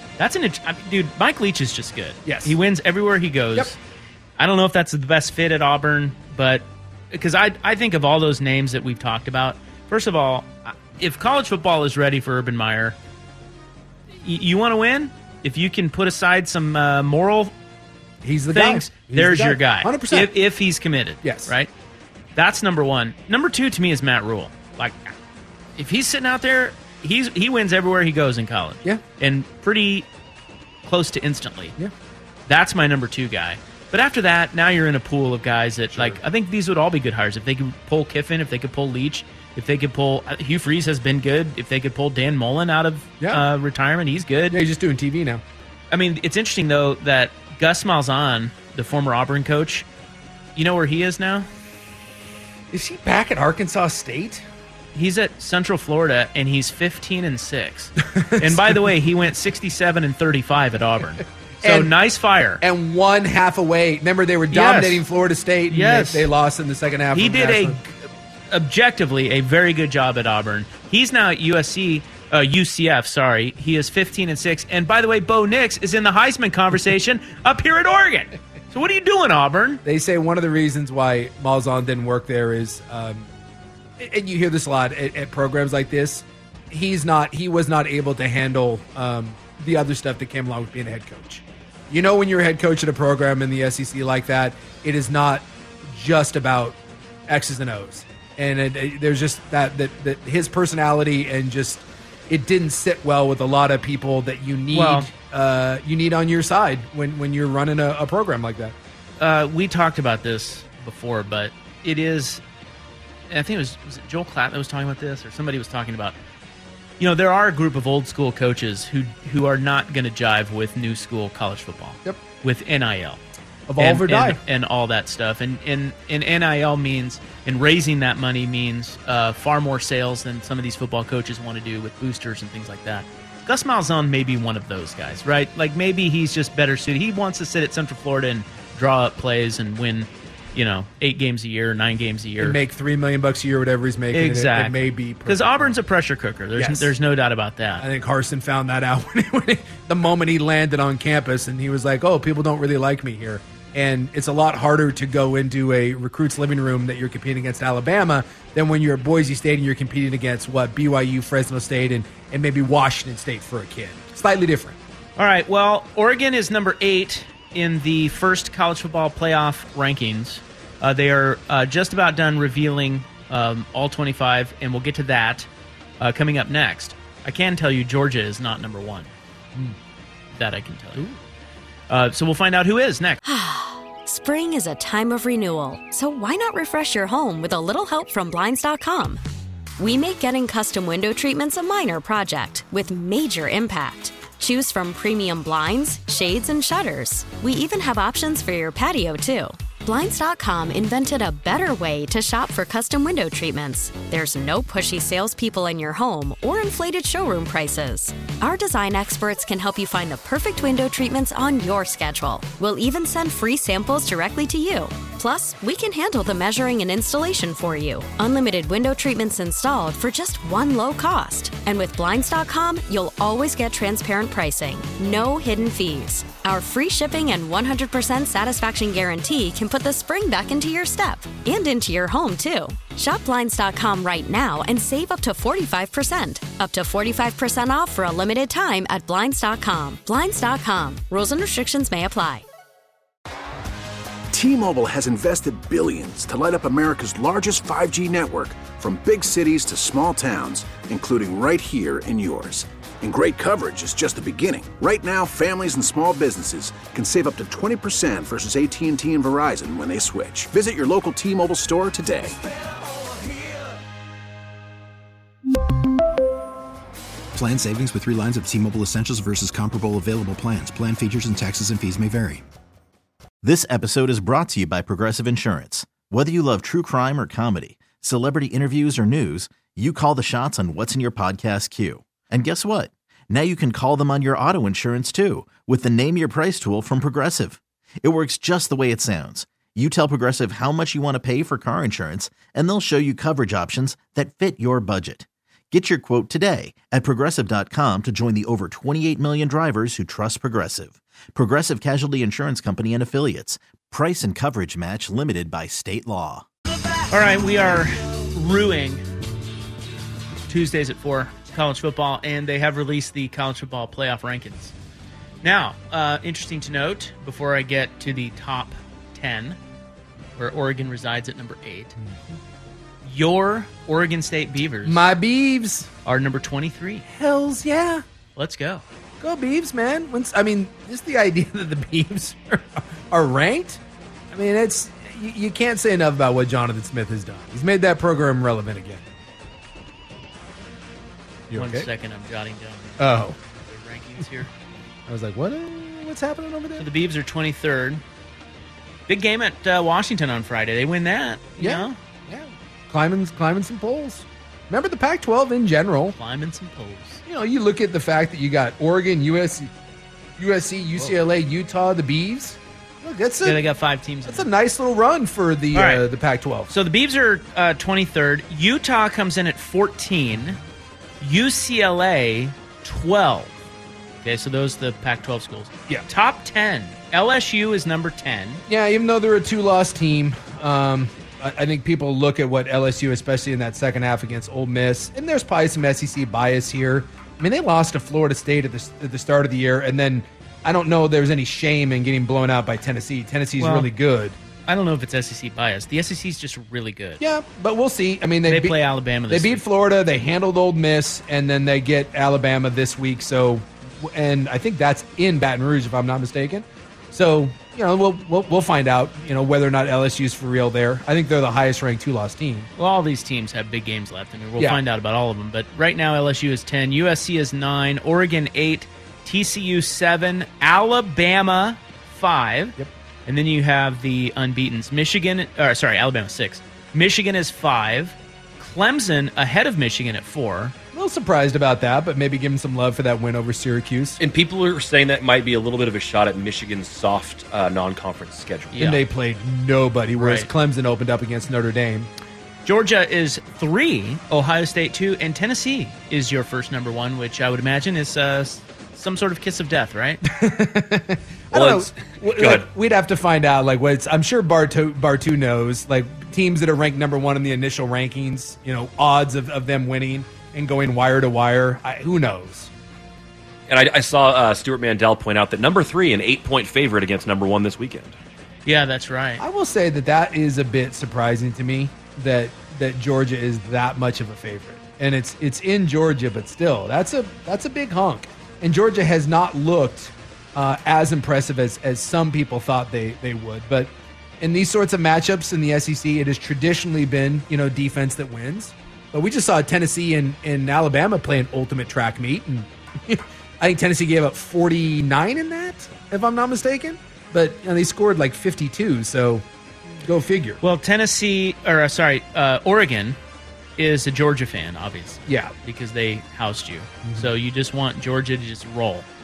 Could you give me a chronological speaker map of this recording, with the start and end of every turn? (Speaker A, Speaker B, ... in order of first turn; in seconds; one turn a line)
Speaker A: 0.2-3.8
Speaker B: 2.2-2.5
Speaker A: 4.4-13.0
Speaker A: 14.2-17.5
Speaker B: 18.2-20.3
Speaker A: 18.5-21.7
Speaker B: 21.2-21.5
Speaker A: 22.4-25.1
Speaker A: 25.8-30.1
Speaker A: 30.8-31.8
Speaker A: 32.5-44.6
Speaker B: 35.9-36.2
Speaker B: 44.5-45.4
Speaker A: 45.9-49.9
Speaker A: 50.6-51.5
Speaker B: 52.7-54.5
Speaker A: 54.9-62.6
Speaker B: 58.1-58.9
Speaker B: 61.6-61.9
Speaker B: 62.6-67.8
Speaker A: 64.5-65.0
Speaker A: 65.7-66.3
Speaker A: 67.1-79.8
Speaker B: 79.8-83.3
Speaker B: 84.0-108.8
Speaker A: 104.7-105.1
Speaker A: 109.2-112.4
Speaker A: 113.3-116.2
Speaker A: 117.0-123.2
Speaker B: 123.7-124.4
Speaker A: 123.8-142.6
Speaker B: 142.4-145.8
Speaker A: 144.1-147.8
Speaker B: 146.6-146.9
Speaker B: 147.8-164.8
Speaker A: 165.2-175.5
Speaker A: 176.0-179.1
Speaker A: 180.3-181.2
Speaker A: 181.9-183.2
Speaker C: 183.2-189.2
Speaker C: 189.8-242.4
Speaker D: 244.3-262.4
Speaker E: 267.3-272.4
Speaker F: 273.4-306.4
Speaker A: 307.1-309.0
Speaker A: 310.5-314.7
Speaker A: 315.4-319.6
Speaker A: 320.4-321.9
Speaker B: 322.0-322.4
Speaker A: 323.0-325.1
Speaker B: 324.8-325.9
Speaker A: 326.1-327.1
Speaker B: 327.1-328.0
Speaker A: 328.4-328.8
Speaker B: 329.2-339.1
Speaker B: 341.5-341.9
Speaker A: 341.5-344.5
Speaker B: 343.0-343.4
Speaker B: 345.1-346.9
Speaker A: 346.8-348.0
Speaker A: 349.1-352.0
Speaker B: 351.6-356.2
Speaker A: 356.1-357.2
Speaker B: 357.3-359.7
Speaker B: 360.4-363.6
Speaker A: 363.4-364.5
Speaker B: 364.2-366.7
Speaker A: 365.7-366.0
Speaker A: 366.7-370.6
Speaker A: 371.2-373.5
Speaker A: 374.2-378.6
Speaker B: 378.7-394.4
Speaker A: 393.6-393.9
Speaker A: 394.7-397.2
Speaker B: 397.2-398.8
Speaker A: 398.5-399.6
Speaker B: 399.3-412.7
Speaker A: 412.8-430.8
Speaker B: 430.9-434.2
Speaker G: 434.2-438.8
Speaker A: 438.7-439.0
Speaker B: 438.8-442.1
Speaker A: 440.2-440.5
Speaker A: 442.6-450.2
Speaker B: 450.2-462.7
Speaker G: 451.5-452.7
Speaker G: 463.7-468.1
Speaker A: 468.7-469.4
Speaker B: 469.4-499.4
Speaker B: 500.0-500.6
Speaker A: 500.6-503.2
Speaker A: 503.8-509.1
Speaker B: 505.3-505.5
Speaker B: 507.0-507.3